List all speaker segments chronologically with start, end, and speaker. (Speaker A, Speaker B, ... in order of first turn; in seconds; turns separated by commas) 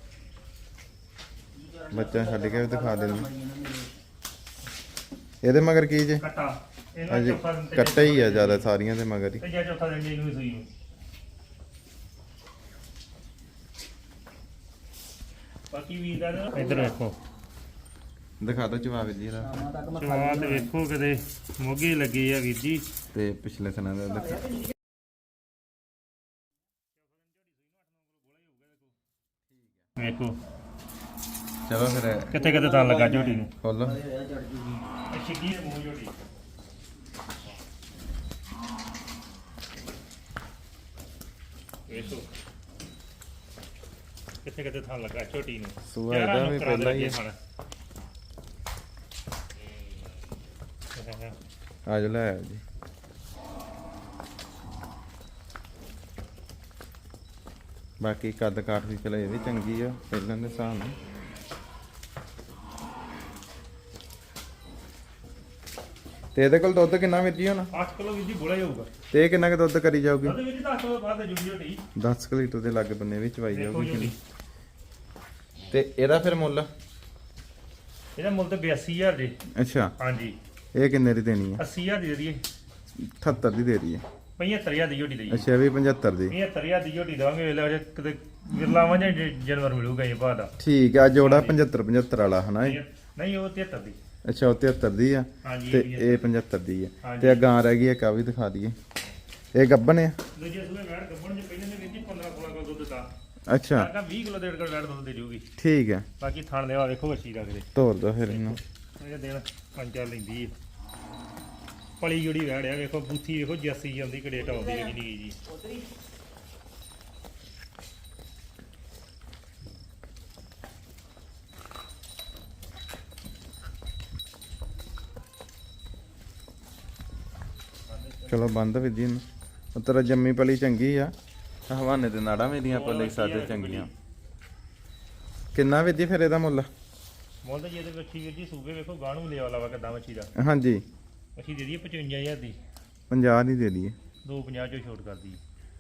Speaker A: 1.5-4.0, Speaker B: 1.9-3.3, Speaker B: 5.4-6.2, Speaker C: 6.2-8.7, Speaker B: 7.1-9.4, Speaker C: 9.4-10.7, Speaker C: 15.7-17.2, Speaker B: 18.4-19.6, Speaker A: 19.4-20.7, Speaker C: 19.9-22.9, Speaker B: 23.1-24.4, Speaker C: 27.0-28.9, Speaker B: 29.5-29.8, Speaker C: 30.0-30.4, Speaker B: 31.7-32.4, Speaker C: 32.3-33.5, Speaker A: 32.4-34.9, Speaker B: 33.6-34.0, Speaker C: 35.1-36.1, Speaker C: 41.9-42.2, Speaker C: 44.5-47.4, Speaker B: 45.9-47.2, Speaker C: 51.0-51.4, Speaker B: 51.9-52.6, Speaker B: 58.0-61.0, Speaker B: 66.3-67.7, Speaker C: 67.7-68.9, Speaker B: 69.1-70.4, Speaker C: 70.2-71.8, Speaker B: 72.0-74.1, Speaker C: 73.5-74.2, Speaker B: 75.7-76.7, Speaker C: 78.2-79.4, Speaker B: 79.5-79.9, Speaker C: 80.0-80.4, Speaker B: 80.7-81.6, Speaker C: 81.6-82.4, Speaker B: 83.0-84.0, Speaker C: 84.4-85.5, Speaker B: 85.3-86.3, Speaker C: 86.3-90.5, Speaker B: 90.6-92.8, Speaker C: 91.2-91.6, Speaker C: 92.6-94.0, Speaker B: 94.2-98.8, Speaker C: 95.4-96.3, Speaker C: 97.0-97.5, Speaker B: 99.5-100.2, Speaker C: 100.3-103.1, Speaker B: 103.5-103.9, Speaker C: 103.8-105.5, Speaker B: 105.6-106.1, Speaker C: 106.2-107.7, Speaker B: 107.8-108.6, Speaker C: 108.2-110.5, Speaker C: 112.0-115.4, Speaker A: 114.5-114.9, Speaker A: 115.5-115.9, Speaker C: 127.9-128.4, Speaker B: 128.3-129.2, Speaker B: 129.8-131.1, Speaker B: 131.7-133.9, Speaker C: 132.7-133.9, Speaker B: 135.5-136.7, Speaker C: 137.4-140.3, Speaker B: 140.4-140.8, Speaker C: 141.4-142.6, Speaker B: 143.1-143.9, Speaker C: 144.2-145.4